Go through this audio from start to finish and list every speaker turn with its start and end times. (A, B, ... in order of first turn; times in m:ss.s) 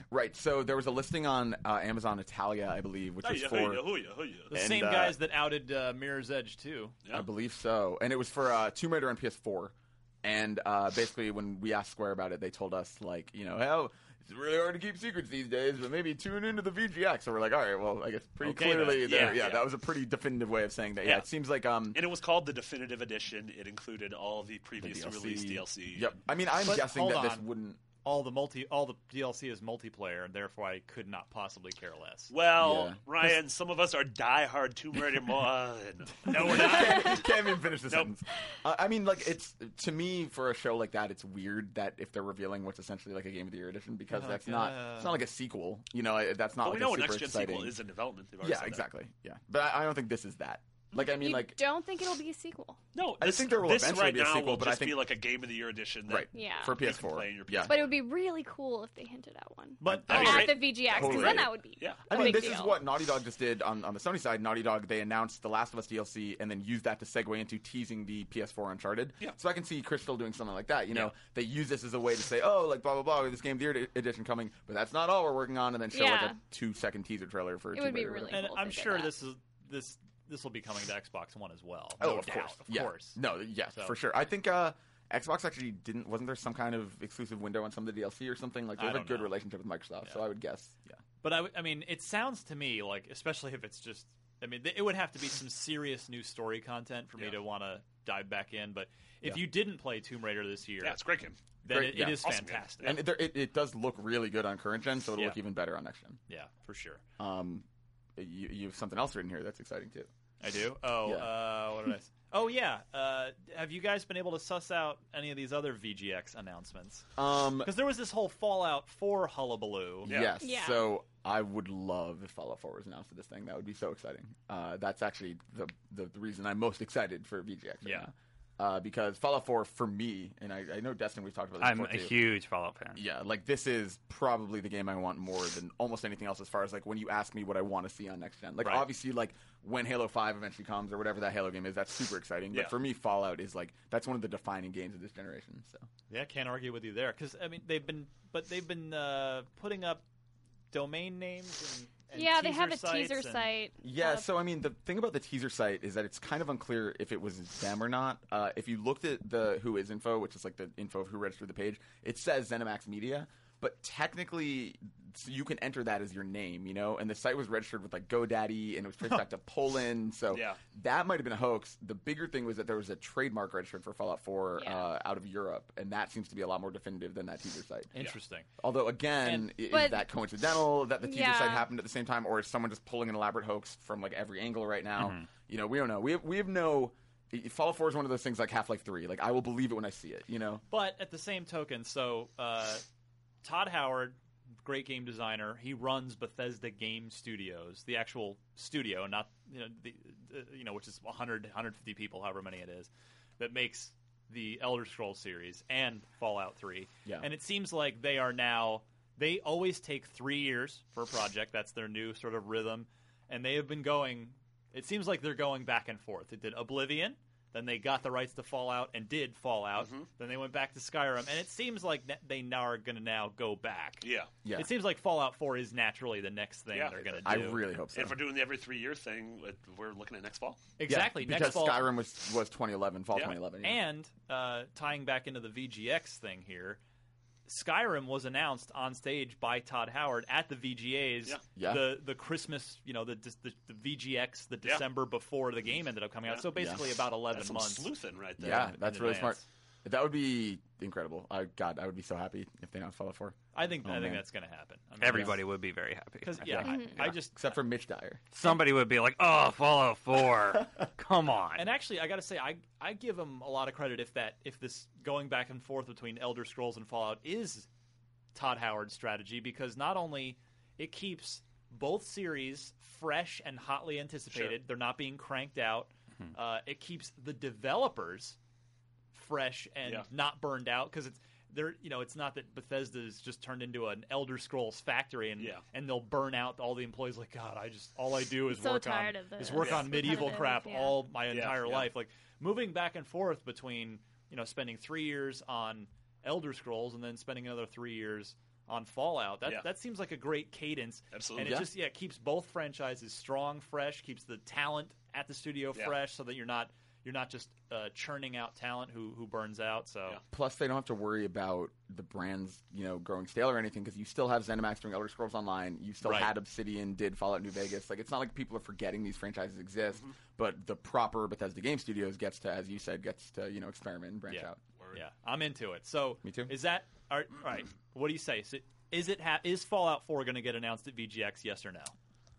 0:00.1-0:03.9 A
0:03.2-0:04.5 B
0:04.5-0:05.2 A
0:04.5-0:07.0 C
0:07.1-0:22.0 A
0:18.4-0:19.6 C
0:19.1-0:19.5 B
0:21.9-0:26.1 B
0:24.8-0:27.9 A
0:26.6-0:32.3 C
0:32.3-0:36.9 B
0:32.6-0:33.0 A
0:36.2-0:47.8 A
0:36.3-0:37.3 C
0:44.1-0:45.2 C
0:46.6-0:48.9 B
0:48.4-0:51.6 A
0:51.0-0:52.8 D
0:52.9-0:58.0 B
0:53.2-0:55.1 A
0:56.0-0:57.9 A
0:56.3-0:56.9 D
0:57.6-1:02.8 D
0:59.8-1:00.7 C
1:00.1-1:02.2 B
1:00.1-1:18.4 A
1:02.1-1:02.5 C
1:15.9-1:16.4 D
1:17.7-1:19.1 D
1:18.3-1:23.2 C
1:22.0-1:31.0 A
1:28.8-1:29.3 C
1:31.2-1:41.0 C
1:40.8-1:41.4 B
1:41.6-1:43.0 C
1:41.7-1:46.2 A
1:42.2-1:43.0 B
1:45.1-1:45.4 C
1:46.3-1:47.0 C
1:47.2-1:47.6 A
1:48.2-1:50.1 A
1:50.4-1:57.1 C
1:51.0-1:51.3 A
1:57.2-1:57.7 A
1:57.6-2:00.1 C
2:00.0-2:00.4 B
2:00.0-2:12.2 A
2:00.4-2:00.9 D
2:07.8-2:08.1 C
2:11.6-2:13.0 E
2:13.0-2:25.9 A
2:18.6-2:18.9 C
2:26.1-2:30.0 C
2:30.7-2:33.5 C
2:32.1-2:34.3 D
2:33.8-2:57.9 A
2:50.3-2:50.6 B
2:54.6-2:54.9 D
2:57.9-2:58.5 C
2:58.6-3:10.6 A
2:59.2-2:59.5 C
2:59.7-3:00.1 D
3:01.0-3:01.7 D
3:05.0-3:05.3 E
3:10.7-3:12.8 C
3:13.4-3:47.6 C
3:39.8-3:40.1 B
3:44.0-3:44.3 B
3:44.4-3:44.7 A
3:46.7-3:47.3 B
3:47.2-3:48.2 A
3:47.9-3:50.6 B
3:50.8-3:51.9 C
3:50.9-3:53.8 A
3:53.6-3:56.8 C
3:57.5-4:07.9 C
4:01.5-4:02.0 A
4:06.5-4:06.8 A
4:07.3-4:08.7 B
4:08.4-4:14.3 A
4:08.4-4:09.4 C
4:13.5-4:15.4 C
4:15.0-4:16.7 E
4:15.0-4:15.4 A
4:16.2-4:17.6 C
4:16.4-4:18.3 A
4:16.6-4:17.0 D
4:18.3-4:21.6 E
4:21.6-4:27.7 C
4:28.3-4:38.4 C
4:34.3-4:34.6 B
4:39.1-5:10.2 C
4:48.5-4:51.1 D
4:49.6-4:50.3 B
4:51.3-4:51.9 B
5:01.1-5:01.6 B
5:01.4-5:01.7 A
5:10.3-5:24.6 A
5:16.0-5:16.3 C
5:24.3-5:31.9 C
5:26.2-5:26.5 A